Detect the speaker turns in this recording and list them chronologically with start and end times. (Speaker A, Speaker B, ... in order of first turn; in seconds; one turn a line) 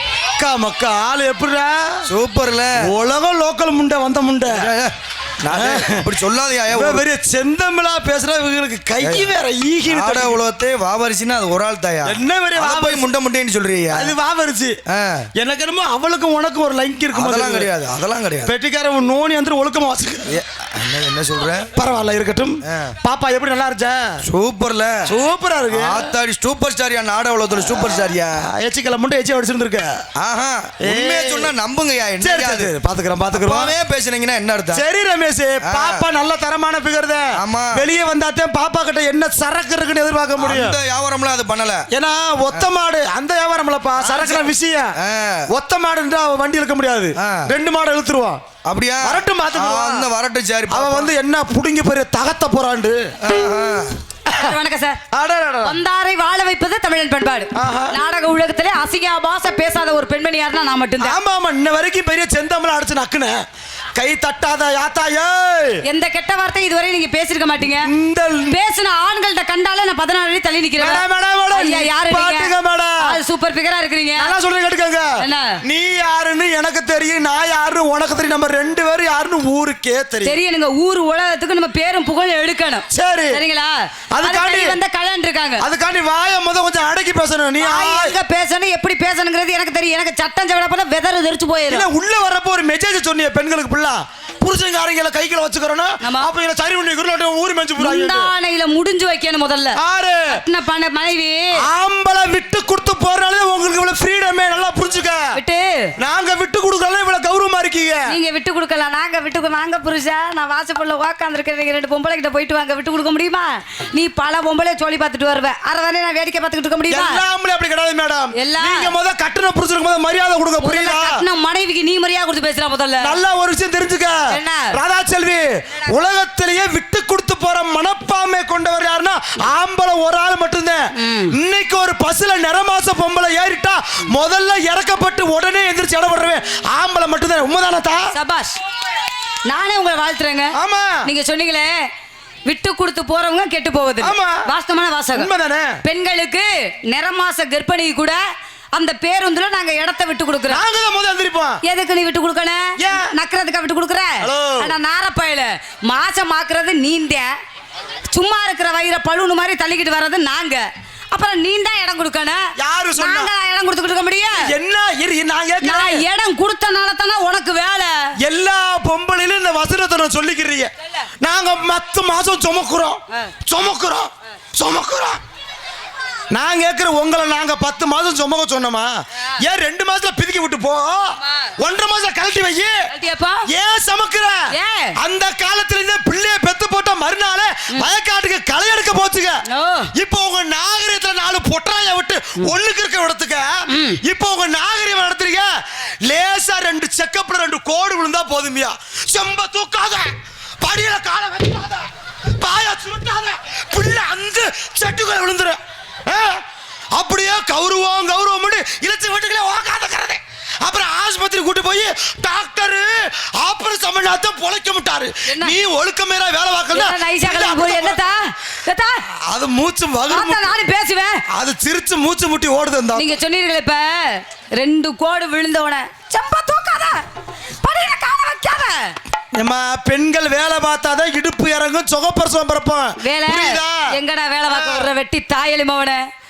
Speaker A: 0.4-2.1
Speaker B: 2.1-2.8
Speaker A: 2.8-4.7
Speaker B: 4.5-7.0
Speaker A: 5.5-6.1
Speaker A: 6.7-10.4
Speaker B: 9.0-9.3
Speaker B: 9.8-14.1
Speaker A: 12.0-13.1
Speaker A: 13.9-14.8
Speaker B: 14.9-15.3
Speaker A: 15.3-17.7
Speaker B: 17.1-18.5
Speaker A: 18.4-20.3
Speaker B: 20.3-21.7
Speaker A: 21.8-24.2
Speaker B: 22.7-22.9
Speaker B: 24.2-25.1
Speaker A: 25.1-26.1
Speaker B: 25.7-28.4
Speaker A: 27.6-30.1
Speaker B: 30.1-32.7
Speaker A: 30.8-31.5
Speaker A: 32.2-33.8
Speaker B: 33.3-34.8
Speaker A: 34.7-40.8
Speaker B: 35.6-36.0
Speaker B: 37.4-37.8
Speaker B: 40.4-41.8
Speaker A: 41.9-44.9
Speaker B: 44.0-45.5
Speaker A: 45.5-48.4
Speaker B: 47.2-47.5
Speaker B: 48.6-51.1
Speaker A: 49.0-50.1
Speaker A: 50.7-53.1
Speaker B: 53.2-54.0
Speaker C: 54.3-55.0
Speaker A: 55.1-55.8
Speaker C: 55.6-61.2
Speaker A: 57.6-57.9
Speaker A: 61.0-63.4
Speaker A: 64.0-65.8
Speaker C: 65.8-67.9
Speaker A: 67.8-68.5
Speaker C: 68.5-74.3
Speaker A: 70.8-73.1
Speaker A: 74.2-80.4
Speaker C: 75.2-75.6
Speaker C: 80.2-85.6
Speaker A: 82.9-83.4
Speaker A: 84.1-84.8
Speaker A: 85.6-88.1
Speaker C: 87.6-91.8
Speaker A: 91.7-98.3
Speaker C: 96.0-96.3
Speaker C: 97.8-99.8
Speaker A: 99.8-100.3
Speaker C: 100.3-101.4
Speaker A: 101.6-105.3
Speaker C: 105.3-105.9
Speaker A: 106.0-108.1
Speaker C: 108.1-117.2
Speaker A: 116.9-121.2
Speaker C: 118.3-118.9
Speaker C: 120.6-123.1
Speaker A: 123.0-138.0
Speaker C: 124.3-124.7
Speaker C: 130.9-131.3
Speaker C: 138.1-138.6
Speaker C: 139.5-140.5
Speaker A: 140.6-141.0
Speaker C: 141.0-141.7
Speaker C: 142.4-145.3
Speaker A: 144.0-144.4
Speaker A: 145.1-145.7
Speaker C: 145.8-148.2
Speaker C: 148.7-150.6
Speaker A: 150.5-151.6
Speaker C: 151.6-157.3
Speaker A: 152.8-153.1
Speaker A: 154.2-154.7
Speaker C: 158.1-162.4
Speaker A: 162.6-163.3
Speaker C: 163.0-164.4
Speaker A: 164.4-166.0
Speaker C: 165.6-167.9
Speaker A: 168.2-175.2
Speaker A: 176.3-182.8
Speaker C: 181.2-181.5
Speaker C: 182.9-183.4
Speaker A: 183.5-184.4
Speaker C: 184.5-185.0
Speaker A: 185.0-189.4
Speaker C: 189.5-189.9
Speaker A: 189.9-195.5
Speaker C: 193.7-194.0
Speaker A: 196.1-206.4
Speaker A: 206.9-218.0
Speaker C: 215.3-215.5
Speaker C: 216.7-219.0
Speaker A: 219.3-220.5
Speaker C: 220.1-221.2
Speaker A: 221.3-223.1
Speaker C: 222.9-227.0
Speaker C: 227.6-228.9
Speaker A: 229.3-233.9
Speaker C: 233.0-236.0
Speaker A: 234.5-234.9